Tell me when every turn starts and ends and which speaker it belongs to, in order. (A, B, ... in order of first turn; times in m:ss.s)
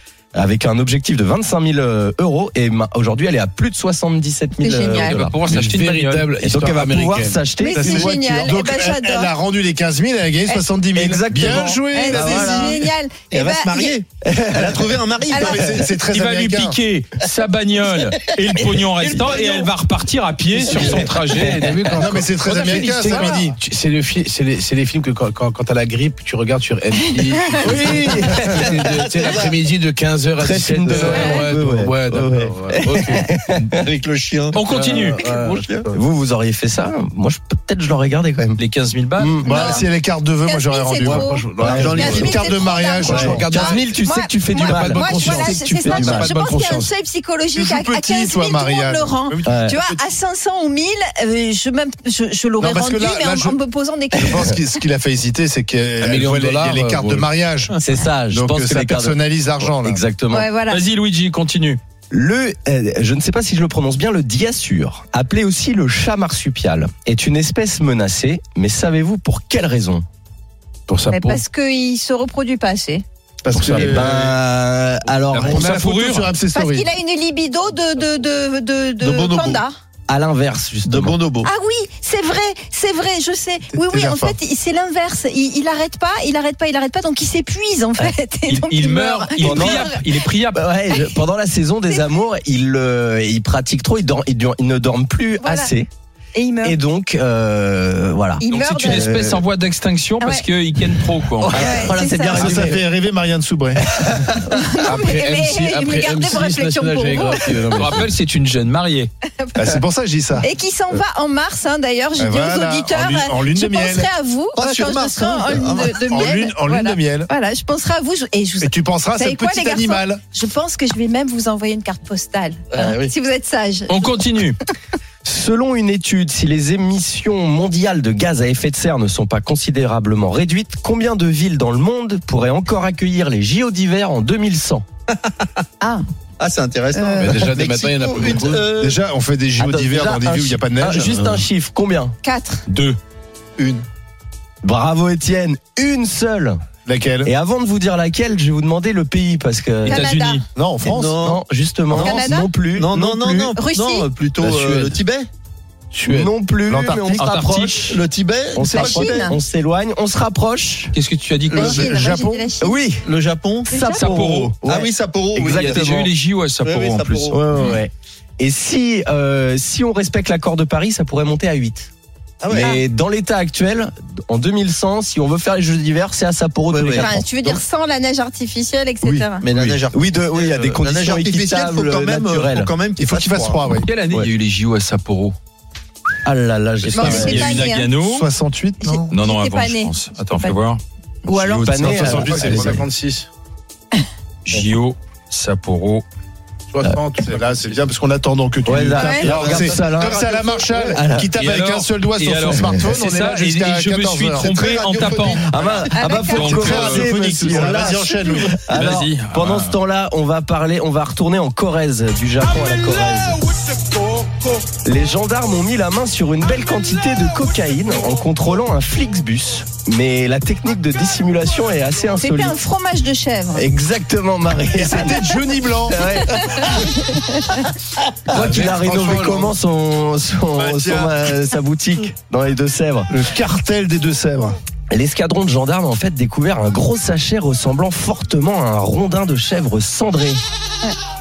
0:00.3-0:05.4 A
0:04.6-0:05.2 B
0:05.0-0:06.4 C
0:05.5-0:07.4 D
0:06.4-0:08.1 A
0:07.6-0:09.3 B
0:07.7-0:12.8 E
0:10.9-0:12.8 A
0:11.9-0:14.0 B
0:13.3-0:16.0 F
0:14.2-0:15.0 A
0:15.2-0:15.8 B
0:15.4-0:16.8 E
0:16.1-0:21.9 C
0:19.1-0:19.7 F
0:20.6-0:33.7 D
0:21.9-0:23.6 E
0:22.2-0:23.4 B
0:27.6-0:29.0 A
0:28.6-0:29.6 F
0:30.4-0:33.7 A
0:31.1-0:31.4 B
0:33.7-0:35.9 F
0:34.5-0:35.3 C
0:34.6-0:36.0 D
0:35.9-0:38.6 A
0:38.6-0:39.4 C
0:39.2-0:39.8 A
0:39.4-0:43.5 E
0:39.4-0:39.9 B
0:40.4-0:54.6 B
0:41.1-0:41.8 D
0:41.6-0:42.4 A
0:41.7-0:42.5 F
0:43.0-0:43.8 D
0:43.0-0:46.3 A
0:44.4-0:46.9 D
0:47.6-0:49.6 E
0:49.4-0:49.8 A
0:52.6-0:53.6 E
0:54.1-0:57.8 E
0:56.0-0:57.3 D
0:57.8-1:00.5 A
0:58.3-1:00.0 E
1:00.3-1:00.8 B
1:00.7-1:01.8 C
1:02.1-1:10.0 A
1:10.9-1:11.4 D
1:11.1-1:13.0 B
1:13.4-1:14.3 E
1:13.5-1:14.0 D
1:13.8-1:15.7 A
1:15.3-1:16.3 C
1:15.4-1:16.9 E
1:16.5-1:19.7 B
1:19.0-1:19.6 F
1:20.1-1:21.2 A
1:20.8-1:21.5 F
1:21.4-1:30.0 B
1:23.8-1:24.4 E
1:28.5-1:30.6 C
1:29.4-1:29.9 A
1:30.5-1:35.9 A
1:30.9-1:31.2 B
1:35.4-1:35.7 B
1:36.3-1:36.8 B
1:36.6-1:39.4 A
1:38.4-1:39.1 B
1:38.5-1:41.6 C
1:41.4-1:42.8 A
1:41.5-1:42.6 B
1:42.2-1:43.8 E
1:43.8-1:44.6 A
1:44.5-1:48.0 B
1:44.8-1:48.0 D
1:47.7-1:49.1 C
1:49.4-1:49.8 B
1:49.6-1:50.5 E
1:50.4-2:04.5 B
1:52.2-1:54.1 E
1:54.5-1:56.0 F
1:56.1-1:57.3 E
1:58.6-2:00.2 E
2:02.7-2:03.1 F
2:03.9-2:04.6 C
2:05.2-2:14.8 A
2:15.2-2:15.6 F
2:16.4-2:19.0 F
2:16.9-2:17.5 B
2:17.2-2:18.7 D
2:18.8-2:21.2 E
2:19.6-2:22.1 A
2:22.2-2:22.6 B
2:22.7-2:23.0 C
2:23.6-2:23.8 F
2:24.6-2:26.6 A
2:26.8-2:27.3 E
2:27.2-2:30.0 A
2:29.8-2:30.4 B
2:29.8-2:30.4 C
2:30.5-2:31.1 E
2:30.8-2:33.6 A
2:30.9-2:32.2 F
2:31.9-2:32.5 B
2:32.7-2:35.3 F
2:33.5-2:34.1 B
2:34.4-2:35.0 D
2:35.9-2:36.3 D
2:36.0-2:38.0 A
2:36.7-2:37.2 E
2:37.1-2:37.9 C
2:37.8-2:39.3 F
2:38.5-2:40.9 A
2:38.7-2:39.3 B
2:40.9-2:41.8 C
2:41.5-2:42.7 B
2:41.5-2:42.5 E
2:42.6-2:43.0 A
2:43.0-2:43.8 F
2:43.7-2:46.1 A
2:43.7-2:44.1 B
2:43.8-2:44.5 C
2:44.6-2:45.9 F
2:45.5-2:47.4 C
2:46.6-2:47.4 F
2:47.3-2:51.9 A
2:52.4-2:52.8 F
2:52.5-2:57.2 A
2:56.7-2:57.6 F
2:57.0-2:59.4 B
2:59.4-3:03.7 F
2:59.5-3:02.7 A
3:03.0-3:03.9 E
3:03.8-3:05.4 C
3:06.2-3:07.6 A
3:06.8-3:08.3 C
3:06.9-3:07.9 B
3:08.0-3:09.1 E
3:08.8-3:10.6 B
3:09.1-3:12.2 C
3:11.2-3:11.8 B
3:11.6-3:12.8 A
3:11.8-3:13.3 D
3:11.9-3:12.8 E
3:14.4-3:16.0 C
3:16.7-3:17.8 D
3:17.3-3:25.2 E
3:18.6-3:21.3 A
3:18.9-3:19.6 B
3:20.1-3:21.0 F
3:21.4-3:25.5 C
3:22.5-3:22.8 A
3:24.5-3:26.1 F
3:25.3-3:33.4 A
3:25.9-3:26.6 B
3:26.2-3:27.8 C
3:26.5-3:28.6 E
3:27.4-3:27.7 F
3:28.7-3:29.8 C
3:34.2-3:34.5 F
3:34.8-3:42.6 A
3:42.2-3:43.7 B
3:43.5-3:46.8 A
3:44.7-3:46.0 E
3:46.4-3:47.6 B
3:48.3-3:53.1 A
3:48.3-3:49.5 E
3:50.5-3:51.3 E
3:53.1-3:54.6 E
3:54.9-4:00.4 A